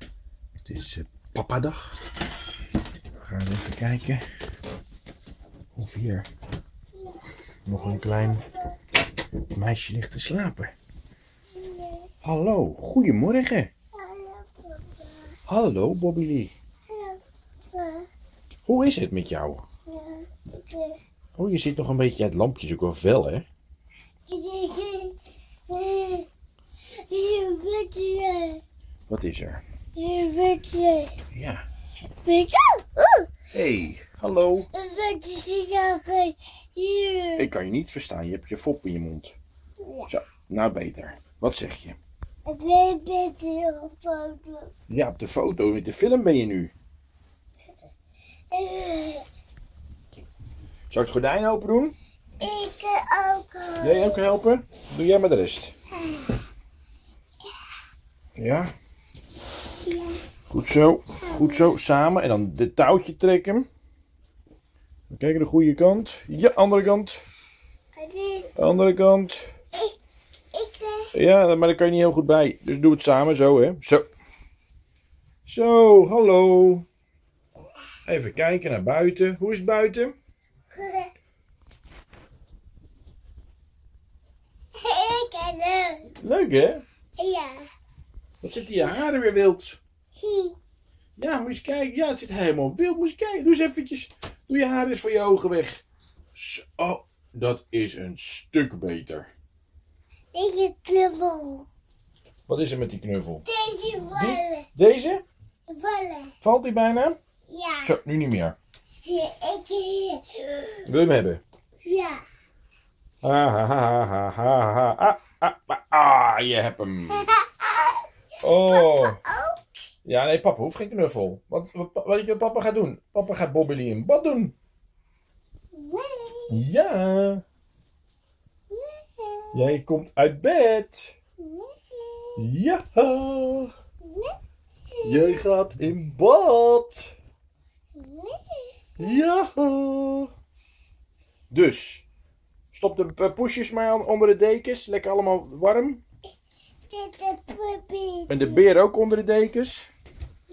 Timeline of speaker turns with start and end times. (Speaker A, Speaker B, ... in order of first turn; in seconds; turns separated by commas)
Speaker A: 0.6-2.0, Speaker A: 3.1-4.2, Speaker A: 5.7-6.3, Speaker B: 6.9-8.8, Speaker A: 7.7-8.4, Speaker A: 9.5-10.7, Speaker B: 11.5-12.1, Speaker A: 12.2-13.7, Speaker B: 13.9-15.3, Speaker A: 15.5-16.5, Speaker B: 16.9-17.2, Speaker B: 17.7-18.1, Speaker A: 18.6-19.6, Speaker B: 19.9-21.0, Speaker A: 21.4-23.5, Speaker B: 24.3-25.2, Speaker B: 25.7-26.3, Speaker B: 26.9-28.6, Speaker A: 29.1-29.6, Speaker B: 29.9-31.1, Speaker A: 31.3-31.6, Speaker B: 32.2-33.3, Speaker A: 33.5-34.7, Speaker B: 34.7-37.5, Speaker A: 37.4-39.3, Speaker B: 39.8-40.1, Speaker A: 40.1-42.0, Speaker B: 42.5-44.7, Speaker A: 44.9-46.7, Speaker B: 48.5-49.2, Speaker A: 50.9-52.0, Speaker B: 52.4-54.3, Speaker A: 53.8-55.7, Speaker B: 55.9-56.4, Speaker A: 58.4-58.7, Speaker B: 59.8-60.2, Speaker A: 60.5-63.7, Speaker B: 61.2-61.7, Speaker A: 65.1-67.2, Speaker B: 68.0-68.5, Speaker A: 68.5-69.5, Speaker B: 70.5-71.1, Speaker A: 71.1-74.1, Speaker A: 75.4-76.8, Speaker A: 78.0-80.1, Speaker B: 80.7-81.1, Speaker B: 84.8-86.1, Speaker A: 86.2-86.8, Speaker B: 87.2-87.7, Speaker A: 88.4-89.8, Speaker B: 90.2-90.5, Speaker A: 91.2-95.8, Speaker A: 96.3-99.3, Speaker B: 100.3-101.7, Speaker A: 102.5-103.4, Speaker B: 103.4-104.7, Speaker A: 104.1-105.2, Speaker B: 105.7-106.3, Speaker A: 106.4-107.2, Speaker B: 107.5-107.9, Speaker A: 107.8-108.6, Speaker B: 109.0-110.9, Speaker A: 110.8-111.4, Speaker B: 111.8-112.2, Speaker A: 113.2-117.2, Speaker B: 117.1-119.6, Speaker A: 118.4-119.2, Speaker A: 120.0-124.5, Speaker B: 125.7-126.5, Speaker A: 126.5-127.4, Speaker B: 128.7-129.6, Speaker A: 129.5-131.1, Speaker B: 131.4-132.4, Speaker A: 132.4-133.7, Speaker B: 134.0-134.3, Speaker B: 134.9-135.4, Speaker A: 135.0-137.1, Speaker B: 137.9-139.0, Speaker A: 139.0-140.3, Speaker A: 141.5-142.0, Speaker A: 142.7-146.0, Speaker B: 146.9-148.7, Speaker A: 148.3-149.9